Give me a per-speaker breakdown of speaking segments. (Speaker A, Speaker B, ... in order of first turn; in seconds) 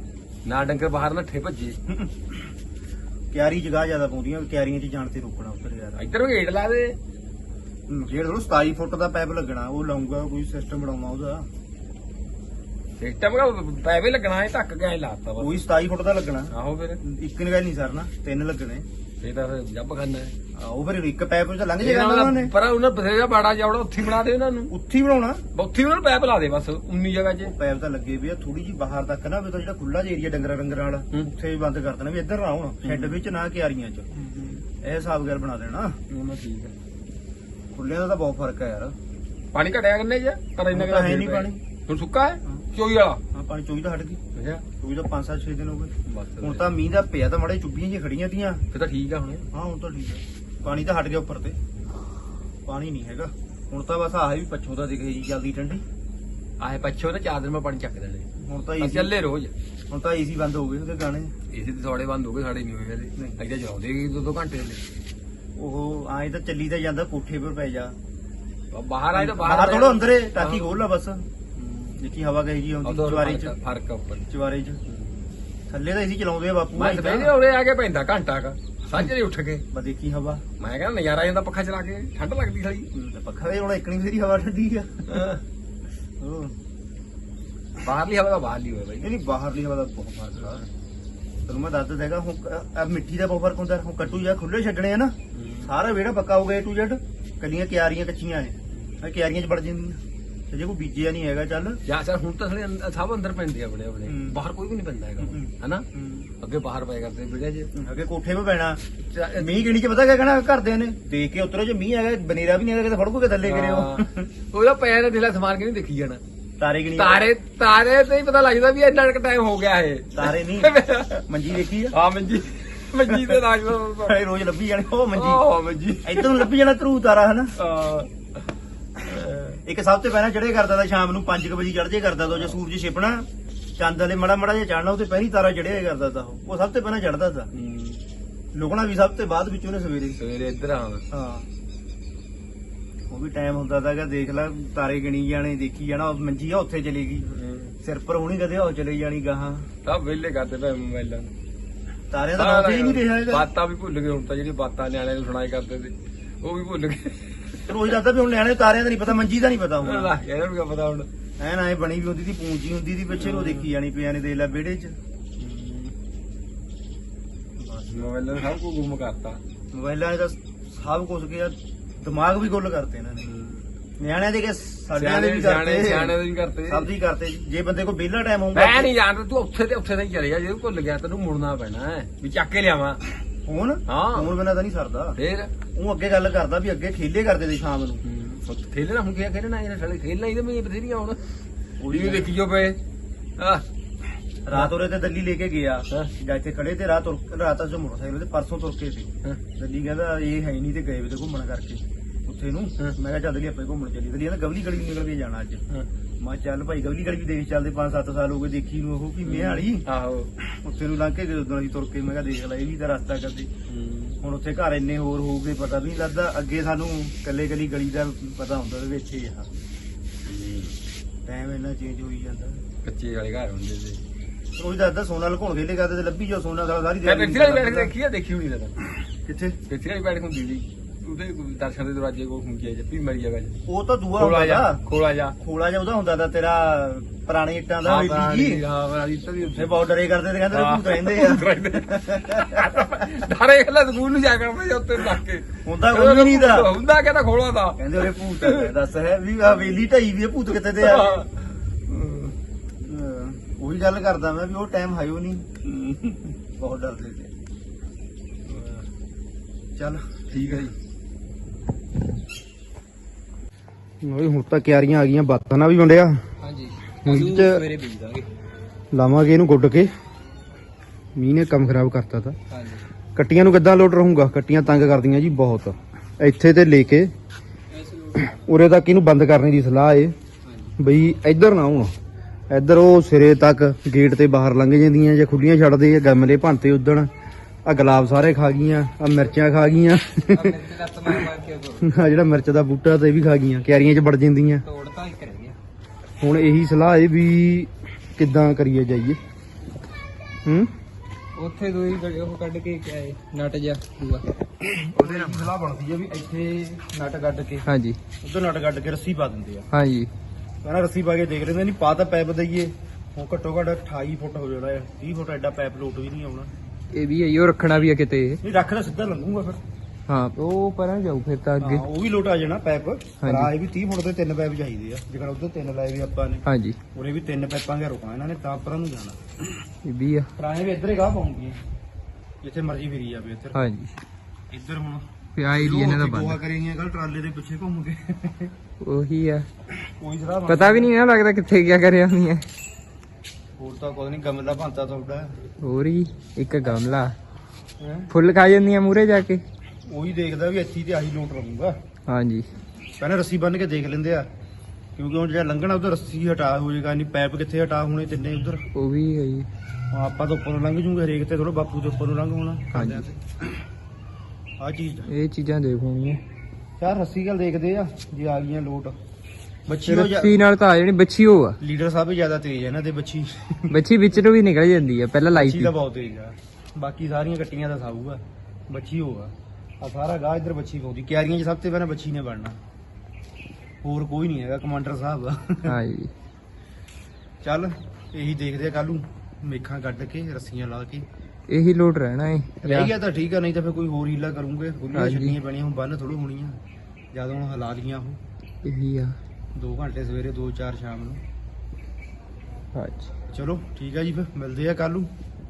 Speaker A: 0.5-1.8, 6.0-7.0, 13.0-15.6, 16.5-17.0, 19.2-20.3, 21.8-24.7, 25.5-27.5, 32.8-33.2, 34.2-34.6, 36.1-36.7, 39.5-43.2, 44.4-44.6, 46.1-46.8, 48.7-49.5, 56.6-58.3, 58.8-59.5, 61.5-64.8, 68.7-70.8, 71.6-72.0, 72.8-74.2, 74.9-75.2, 76.8-79.6, 80.6-82.9, 85.1-85.4, 87.8-89.1, 95.3-95.7, 101.9-105.9, 106.4-107.7, 109.1-109.7, 113.4-116.2, 117.0-121.2, 121.9-124.2, 125.2-126.5, 127.6-128.4, 129.0-129.6, 132.3-132.6, 137.5-138.0, 140.2-141.0, 147.3-147.8, 149.8-151.3, 152.4-157.9, 159.8-161.1, 163.1-163.7, 165.4-165.9, 167.8-169.4, 173.3-173.7, 174.9-176.9, 178.5-183.0, 183.9-184.4, 185.2-185.5, 188.0-191.2, 191.9-192.8, 193.4-193.7, 209.2-210.3, 213.7-214.2, 220.2-220.8, 222.8-224.0, 227.1-228.8, 229.7-233.6, 234.2-235.4, 237.8-239.8, 240.5-248.7, 250.8-251.5, 255.8-256.3, 258.5-258.9, 260.3-260.8
Speaker B: 1.9-2.5, 3.3-6.1, 7.9-11.5, 15.4-18.9, 20.6-22.5, 24.7-25.4, 27.4-34.1, 34.8-36.0, 37.7-39.0, 40.7-41.6, 43.3-44.2, 44.8-48.6, 49.5-51.6, 52.7-55.8, 58.4-59.1, 59.9-61.3, 63.2-63.4, 65.6-68.0, 69.1-71.2, 72.0-73.5, 74.3-74.8, 75.7-77.3, 79.7-80.4, 82.9-85.3, 86.2-86.5, 89.0-90.7, 91.5-101.8, 104.1-104.4, 105.2-106.3, 107.8-114.3, 116.6-117.3, 120.2-122.0, 123.0-125.5, 126.0-127.6, 129.6-133.3, 133.8-137.5, 138.5-140.2, 141.1-141.5, 143.1-147.3, 147.8-149.7, 152.1-153.5, 157.7-160.1, 161.4-165.0, 167.6-168.0, 169.7-173.3, 174.0-178.9, 183.4-185.2, 185.7-188.0, 191.8-192.3, 194.5-205.6, 206.2-209.9, 210.4-213.5, 214.2-219.5, 221.3-222.6, 224.6-227.9, 229.2-229.6, 233.7-234.8, 235.4-238.6, 239.6-243.0, 245.6-246.7, 247.8-251.3, 252.8-255.5, 256.5-257.3, 259.8-260.6, 264.0-266.2, 267.0-267.6, 268.9-269.9, 271.1-272.4, 273.1-277.1, 278.3-280.1, 280.8-281.9, 282.5-287.1, 287.6-290.6, 291.8-294.6, 296.2-299.2, 300.4-300.7, 304.7-307.7, 308.2-309.7, 310.6-316.5, 318.4-319.6, 321.6-329.2, 330.4-331.6, 332.4-333.6, 334.5-338.5, 339.9-340.9, 343.6-345.3, 347.8-348.1, 349.9-351.8, 353.0-354.3, 355.0-358.6, 359.9-363.4, 364.6-365.1, 366.8-369.0, 369.7-370.4, 371.6-373.8, 375.3-382.6, 383.8-385.7, 387.4-391.1, 392.6-396.6, 397.1-398.2, 399.6-401.2, 403.3-405.1
Speaker C: 266.4-268.3, 272.5-272.8, 277.7-278.4, 280.5-280.7, 290.3-292.0, 294.6-295.6, 301.4-305.5, 307.7-308.0, 309.7-310.1, 316.9-318.4, 320.1-321.9, 323.2-323.5, 326.5-326.8, 329.9-330.3, 333.6-333.9, 335.4-336.4, 338.8-339.5, 340.5-342.5, 345.6-347.2, 348.1-349.4, 352.1-352.5, 358.7-359.5, 362.7-363.1, 365.1-366.2, 369.9-371.6, 373.7-375.7, 385.6-386.1, 391.5-392.9, 394.9-395.4, 398.6-399.2, 402.8-403.1